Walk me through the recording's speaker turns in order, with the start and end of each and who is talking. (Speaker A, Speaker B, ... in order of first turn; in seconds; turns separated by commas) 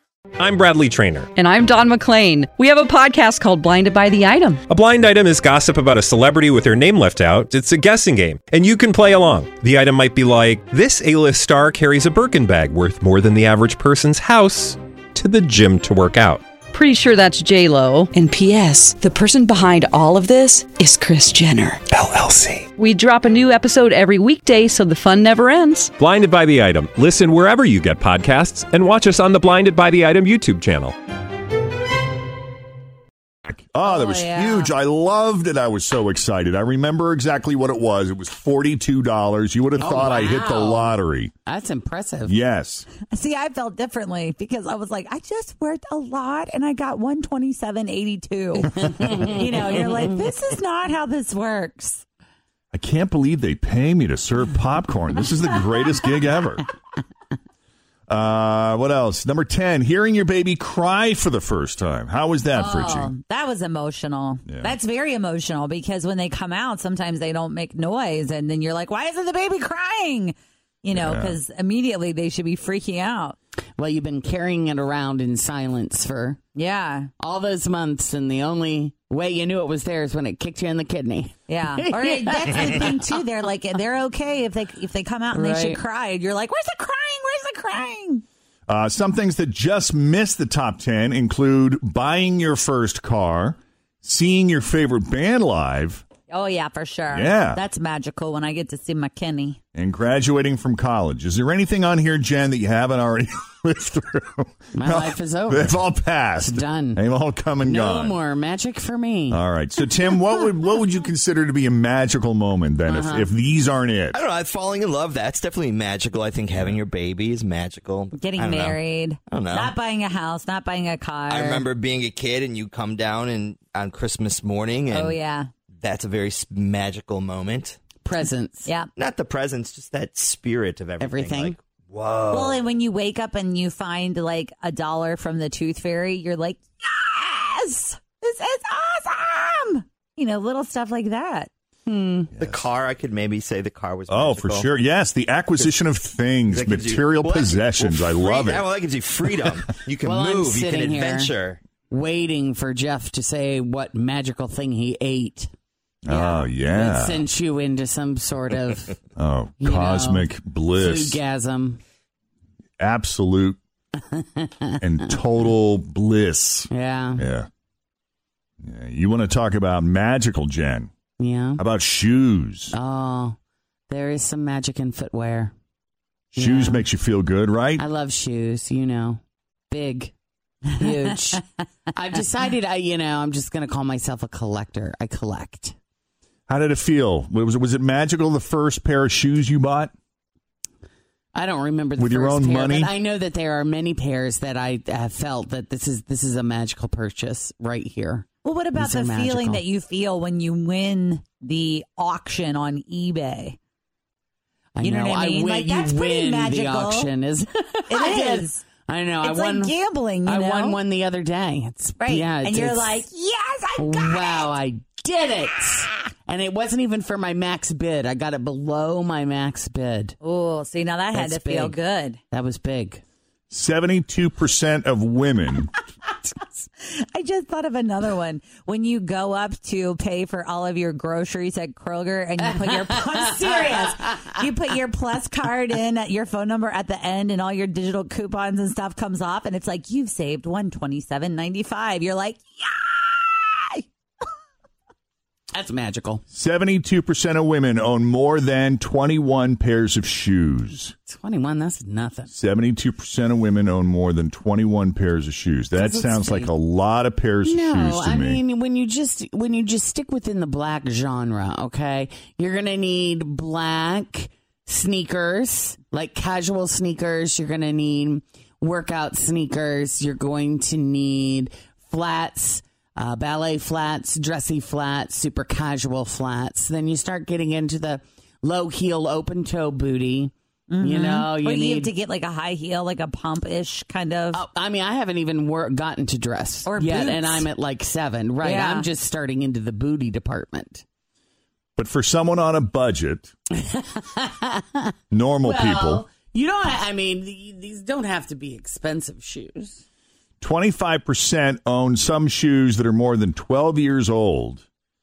Speaker A: 0.4-1.3, Speaker B: 1.3-4.6, Speaker A: 4.7-16.4, Speaker B: 16.7-21.8, Speaker B: 22.8-25.9, Speaker A: 26.0-30.9, Speaker C: 33.5-41.3, Speaker D: 33.8-34.7, Speaker E: 39.8-42.3, Speaker C: 42.2-42.9, Speaker D: 43.1-52.0, Speaker E: 48.6-50.1, Speaker C: 52.7-56.6, Speaker C: 58.1-63.1, Speaker D: 62.5-73.3, Speaker C: 64.5-64.7, Speaker C: 70.9-71.3, Speaker E: 73.8-76.4, Speaker D: 76.5-77.1, Speaker E: 77.2-83.0, Speaker D: 81.5-88.2, Speaker E: 85.3-85.8, Speaker C: 88.7-96.0, Speaker D: 96.3-99.6, Speaker C: 97.1-97.6, Speaker C: 99.7-108.2, Speaker E: 104.7-105.8, Speaker E: 106.4-107.0, Speaker E: 107.6-109.4, Speaker C: 109.3-114.2, Speaker E: 112.9-113.3, Speaker F: 114.1-118.8, Speaker D: 118.1-121.7, Speaker F: 119.3-119.7, Speaker F: 121.3-125.2, Speaker D: 124.9-125.5, Speaker F: 125.8-127.8, Speaker E: 128.0-128.7, Speaker F: 128.9-132.6, Speaker E: 131.0-131.6, Speaker D: 132.3-141.5, Speaker E: 141.8-142.3, Speaker F: 142.3-144.7, Speaker C: 142.4-142.6, Speaker C: 144.1-148.7, Speaker F: 146.5-151.6, Speaker E: 150.0-151.3, Speaker E: 151.9-155.5, Speaker C: 156.0-157.2, Speaker E: 156.6-159.0, Speaker C: 159.2-161.2, Speaker E: 159.6-161.8, Speaker C: 162.8-163.6, Speaker E: 163.9-164.8, Speaker C: 164.8-167.5, Speaker E: 166.7-167.2, Speaker C: 168.6-170.9, Speaker E: 171.2-171.6, Speaker C: 171.6-172.7, Speaker E: 172.7-173.3, Speaker E: 173.9-175.5, Speaker C: 176.3-177.8, Speaker E: 176.3-176.8, Speaker E: 177.8-180.1, Speaker E: 180.7-185.7, Speaker C: 186.5-189.9, Speaker E: 191.3-199.6, Speaker C: 192.0-192.9, Speaker D: 198.4-203.6, Speaker E: 204.8-209.7, Speaker D: 204.8-207.1, Speaker D: 207.9-208.6, Speaker D: 209.2-210.8, Speaker E: 210.2-213.0, Speaker D: 212.0-214.5, Speaker E: 213.8-220.2, Speaker D: 220.2-222.2, Speaker E: 221.1-221.8, Speaker E: 222.3-223.0, Speaker C: 223.5-225.7, Speaker D: 226.4-243.8, Speaker E: 232.4-234.3, Speaker E: 245.5-246.2, Speaker C: 246.3-250.9, Speaker E: 251.1-252.3, Speaker C: 252.3-258.4, Speaker E: 255.8-256.5, Speaker E: 257.4-281.9, Speaker D: 280.7-284.4, Speaker E: 284.3-290.8, Speaker D: 286.6-287.4, Speaker D: 288.4-288.9, Speaker C: 291.8-293.3, Speaker E: 293.5-299.8, Speaker C: 295.1-296.0, Speaker C: 300.4-304.6